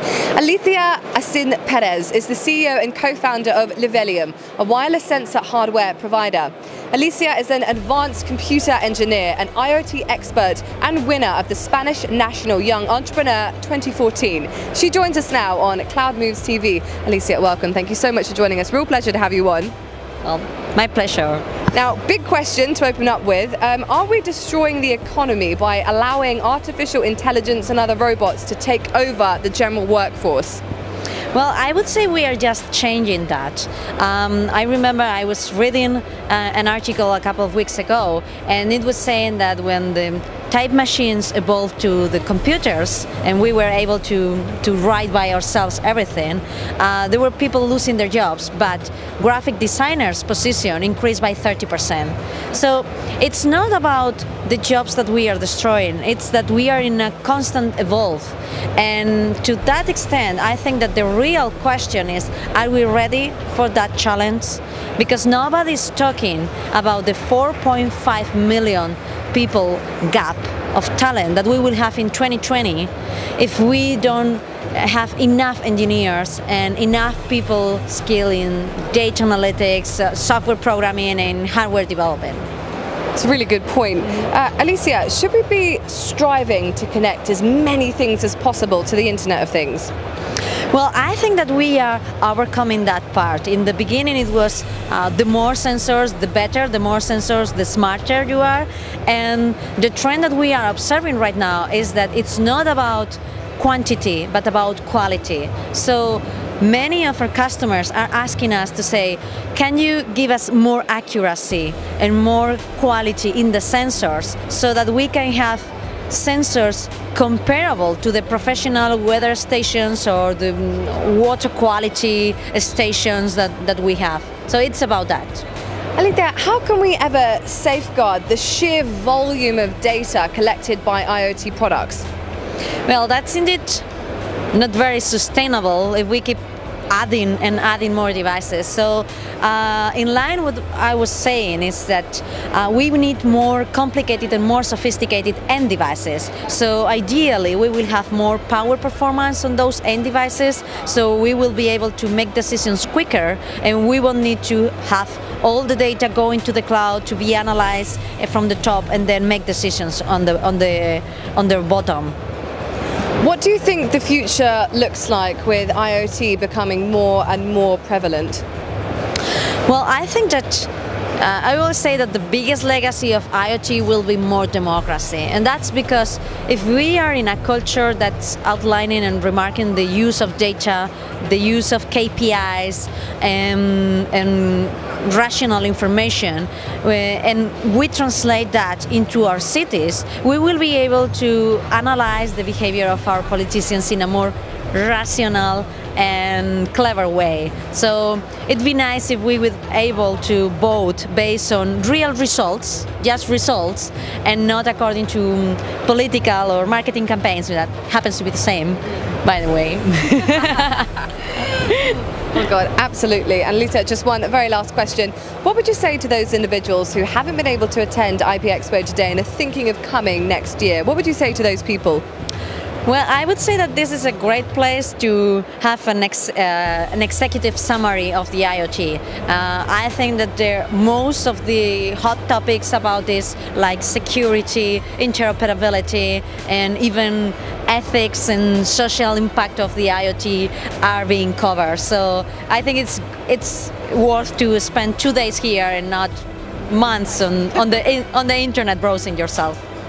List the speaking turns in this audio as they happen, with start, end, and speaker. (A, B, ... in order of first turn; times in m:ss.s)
0:00.4-0:19.7 A
0:20.2-0:21.5 B
0:21.7-0:30.6 A
0:31.3-1:22.4 B
1:23.1-1:29.9 A
1:30.7-2:05.4 B
2:06.0-2:12.1 A
2:12.9-2:13.8 B
2:14.5-2:42.2 B
2:43.2-2:48.4 A
2:49.7-3:30.9 B
3:31.6-3:31.9 B
3:32.3-3:42.0 A
3:42.8-4:09.6 B